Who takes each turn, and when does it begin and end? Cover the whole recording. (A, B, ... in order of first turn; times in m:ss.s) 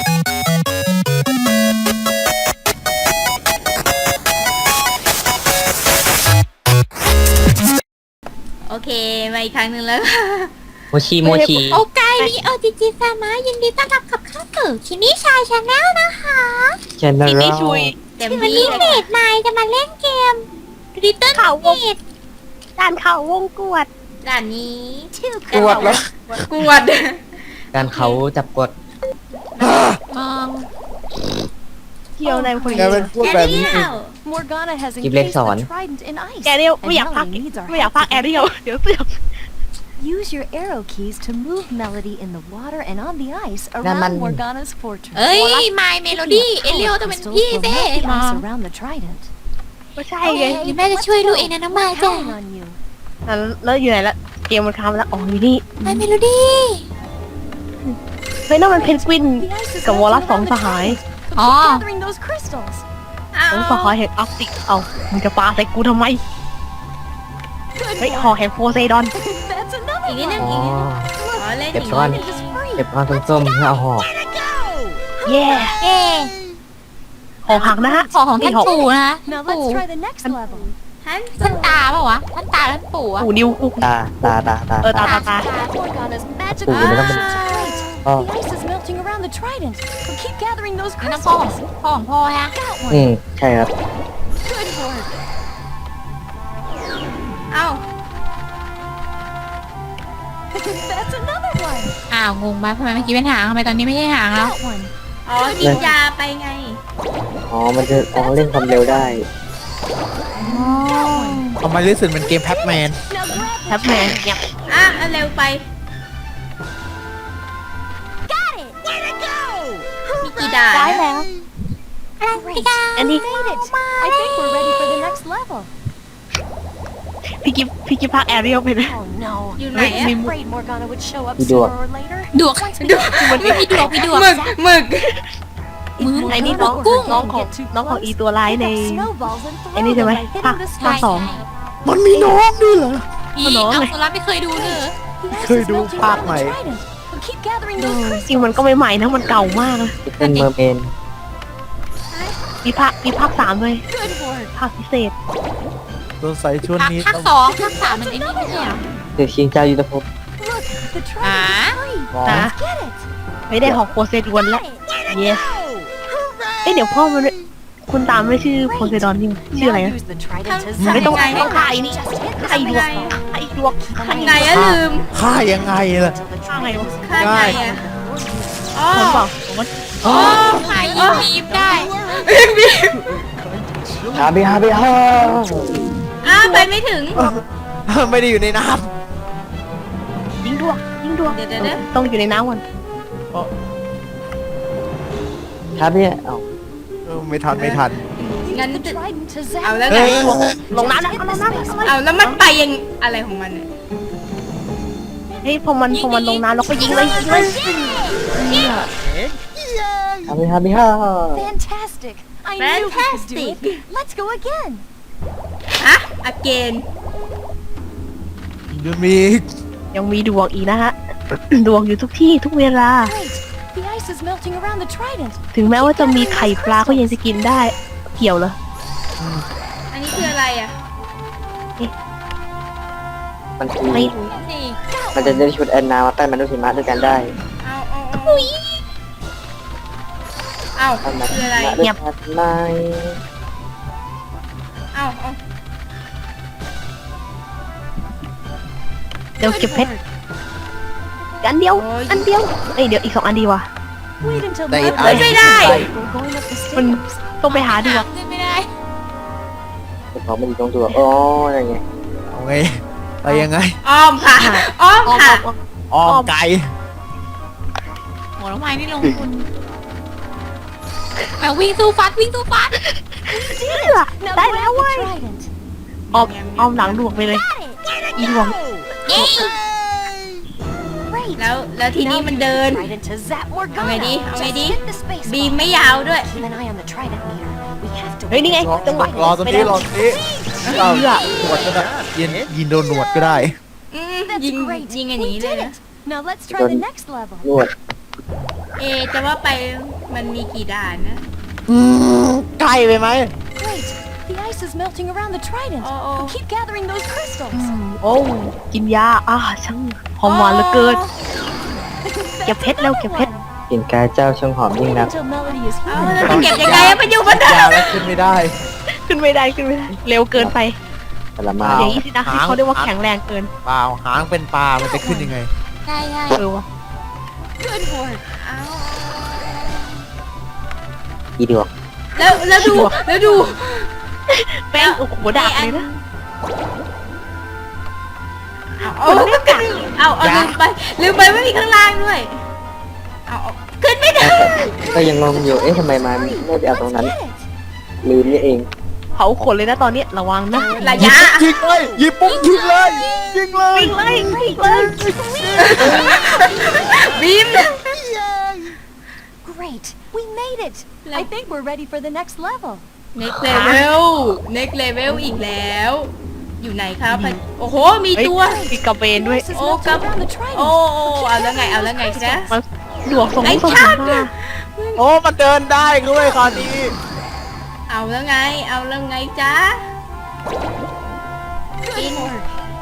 0:08.7-0:10.5 A
0:10.9-0:11.8 B
0:11.2-0:11.6 C
0:11.7-0:16.8 D
0:17.0-0:17.9 B
0:17.3-0:17.9 C
0:18.2-0:19.0 A
0:18.2-0:19.0 E
0:18.3-0:22.0 D
0:18.4-0:18.7 C
0:21.4-0:21.8 C
0:22.8-0:23.9 C
0:24.2-0:25.1 A
0:25.1-0:26.1 E
0:25.5-0:26.4 F
0:26.5-0:27.2 A
0:27.7-0:28.7 B
0:27.8-0:28.2 A
0:29.6-0:29.9 A
0:29.6-0:30.0 F
0:30.1-0:30.7 D
0:32.2-0:33.1 C
0:32.2-0:38.4 E
0:32.7-0:33.9 F
0:33.2-0:34.1 A
0:35.0-0:35.7 B
0:36.4-0:39.2 C
0:40.0-0:49.3 E
0:43.8-0:44.4 B
0:45.2-0:48.4 D
0:50.0-0:50.7 C
0:50.2-0:52.8 E
0:50.3-0:52.4 D
0:53.3-0:56.1 C
0:55.8-0:56.8 D
0:58.5-1:01.0 C
0:58.7-1:02.8 E
1:01.4-1:01.8 D
1:03.3-1:03.9 A
1:03.5-1:06.2 C
1:07.8-1:08.4 E
1:08.0-1:09.1 C
1:09.1-1:10.6 E
1:10.1-1:10.8 A
1:10.4-1:11.1 B
1:11.2-1:13.7 E
1:11.4-1:12.3 A
1:11.7-1:12.2 B
1:12.0-1:12.6 D
1:12.8-1:14.1 B
1:15.2-1:15.6 E
1:15.2-1:15.8 C
1:15.8-1:16.3 D
1:17.4-1:18.7 C
1:17.5-1:20.7 E
1:18.1-1:19.8 D
1:20.3-1:20.6 C
1:21.0-1:21.8 A
1:21.4-1:23.3 D
1:23.2-1:24.3 C
1:23.8-1:25.0 B
1:24.8-1:25.4 C
1:25.0-1:25.7 D
1:25.0-1:31.7 E
1:26.6-1:27.2 B
1:26.7-1:28.0 A
1:31.0-1:32.5 D
1:32.5-1:33.1 E
1:32.9-1:33.7 B
1:34.4-1:35.1 E
1:37.5-1:37.8 A
1:40.5-1:42.0 E
1:42.1-1:44.6 D
1:44.4-1:44.9 E
1:45.3-1:46.8 A
1:45.7-1:45.9 E
1:47.5-1:49.3 B
1:47.8-1:49.2 E
1:50.4-1:51.5 E
1:50.4-1:51.6 D
1:51.6-1:53.0 F
1:52.2-1:54.4 E
1:53.7-1:54.5 C
1:54.7-1:55.6 A
1:58.3-1:58.8 E
2:00.2-2:01.0 A
2:00.7-2:01.2 C
2:02.2-2:04.5 D
2:02.3-2:05.7 E
2:03.0-2:03.2 C
2:07.4-2:08.9 C
2:08.2-2:14.6 E
2:09.6-2:10.2 A
2:09.7-2:10.4 C
2:11.4-2:11.7 B
2:12.3-2:14.3 D
2:12.8-2:15.1 A
2:13.2-2:13.9 C
2:16.0-2:21.3 E
2:16.0-2:17.4 D
2:16.3-2:19.1 C
2:19.8-2:21.3 C
2:20.8-2:21.5 D
2:21.8-2:23.0 F
2:22.1-2:22.4 C
2:23.3-2:25.0 D
2:23.4-2:23.9 C
2:24.6-2:28.7 E
2:25.3-2:26.6 F
2:27.9-2:30.0 C
2:30.1-2:30.9 B
2:30.2-2:30.5 D
2:32.1-2:32.4 A
2:32.6-2:33.8 C
2:33.9-2:34.5 E
2:34.6-2:35.1 C
2:36.2-2:37.3 F
2:36.8-2:38.8 D
2:37.5-2:38.8 E
2:39.2-2:40.0 B
2:40.4-2:43.1 E
2:41.2-2:41.8 D
2:42.1-2:42.5 F
2:42.2-2:42.6 C
2:43.5-2:45.6 C
2:44.5-2:44.8 E
2:46.6-2:50.0 C
2:48.6-2:58.8 E
2:50.4-2:51.7 D
2:50.9-2:53.8 C
2:50.9-2:51.5 A
2:52.4-2:53.2 A
2:54.0-2:55.1 A
2:54.4-2:56.2 F
2:56.5-2:56.9 C
2:57.0-2:57.8 A
2:57.2-2:57.6 F
2:58.7-2:59.3 A
2:58.9-2:59.7 C
3:00.0-3:01.3 A
3:00.0-3:01.9 D
3:00.4-3:02.3 E
3:02.0-3:03.2 A
3:04.0-3:04.2 F
3:04.1-3:05.9 B
3:06.2-3:07.2 A
3:06.3-3:06.7 C
3:07.2-3:08.9 F
3:10.4-3:12.6 C
3:11.3-3:11.8 A
3:15.8-3:16.4 B
3:17.1-3:18.0 F
3:17.6-3:19.0 A
3:18.4-3:22.0 E
3:19.6-3:20.3 A
3:19.9-3:20.6 F
3:20.2-3:22.4 C
3:21.8-3:23.7 A
3:25.3-3:25.6 E
3:25.4-3:27.6 C
3:25.9-3:27.6 D
3:26.8-3:28.4 E
3:28.5-3:28.7 C
3:28.5-3:28.8 D
3:30.3-3:31.5 B
3:31.3-3:34.9 E
3:32.6-3:33.8 A
3:35.8-3:36.8 A
3:38.7-3:39.5 F
3:39.9-3:43.2 C
3:43.0-3:47.4 E
3:45.5-3:48.6 C
3:49.9-3:50.7 A
3:53.6-3:54.2 B
3:53.9-3:54.3 C
3:54.3-3:54.8 D
3:54.9-3:55.4 E
3:55.2-3:57.2 B
3:57.6-3:58.5 A
3:58.2-3:58.8 D
4:00.8-4:01.8 A
4:01.0-4:03.2 B
4:04.9-4:05.4 A
4:09.4-4:09.9 C
4:09.5-4:10.0 E
4:11.4-4:13.7 C
4:11.8-4:12.3 A
4:14.2-4:15.9 F
4:14.2-4:17.2 E
4:15.0-4:15.2 C
4:15.0-4:15.9 A
4:16.8-4:18.1 C
4:17.5-4:18.7 D
4:20.2-4:21.8 B
4:22.3-4:22.7 F
4:23.2-4:23.8 F
4:23.8-4:25.4 A
4:24.2-4:26.3 C
4:25.9-4:26.7 F
4:28.4-4:29.3 D
4:31.4-4:32.8 D
4:33.3-4:35.5 E
4:33.7-4:35.1 C
4:36.1-4:37.1 A
4:36.1-4:37.4 C
4:37.3-4:37.8 E
4:38.2-4:38.6 C
4:39.1-4:39.5 D
4:39.1-4:39.4 C
4:41.1-4:51.6 E
4:41.4-4:42.9 A
4:43.8-4:46.3 A
4:48.3-4:49.8 C
4:48.5-4:50.2 F
4:50.6-4:50.9 A
4:50.7-4:53.6 F
4:50.8-4:51.3 C
4:53.0-4:53.5 E
4:53.9-4:55.8 A
4:54.2-4:57.5 E
4:56.5-4:56.8 B
4:57.4-4:57.7 B
4:58.8-5:01.2 A
5:01.7-5:03.3 F
5:03.6-5:08.0 E
5:05.8-5:06.4 A
5:07.6-5:11.0 C
5:10.2-5:11.1 A
5:12.0-5:13.5 E
5:12.5-5:13.3 C
5:13.7-5:15.1 B
5:14.8-5:17.2 E
5:15.9-5:18.0 A
5:16.1-5:18.5 F
5:18.9-5:20.8 C
5:21.4-5:22.0 B
5:21.6-5:22.9 F
5:21.7-5:23.5 C
5:23.6-5:25.5 F
5:24.9-5:25.4 E
5:25.9-5:26.4 D
5:26.3-5:26.6 C
5:27.6-5:28.2 E
5:28.4-5:30.0 A
5:31.4-5:31.7 B
5:32.2-5:33.9 A
5:32.2-5:33.0 C
5:32.6-5:33.5 E
5:34.3-5:35.9 C
5:34.8-5:36.0 A
5:38.8-5:42.4 A
5:39.0-5:39.8 C
5:40.2-5:40.6 F
5:43.3-5:45.0 A
5:44.2-5:47.1 B
5:45.1-5:47.5 E
5:48.0-5:48.7 B
5:49.2-5:51.1 C
5:50.6-5:51.2 E
5:50.8-5:51.5 A
5:51.0-5:56.1 F
5:52.2-5:57.1 E
5:53.8-5:55.0 C
5:55.6-5:58.0 A
5:59.4-6:02.9 E
6:01.0-6:01.3 A
6:03.2-6:08.7 A
6:03.5-6:03.8 C
6:05.1-6:05.4 C
6:07.1-6:07.4 C
6:08.2-6:09.5 C
6:08.4-6:12.4 E
6:09.5-6:12.6 A
6:12.3-6:14.3 C
6:13.4-6:15.0 A
6:15.0-6:17.0 F
6:16.3-6:16.7 A
6:17.9-6:19.8 A
6:21.8-6:22.5 E
6:22.0-6:22.4 A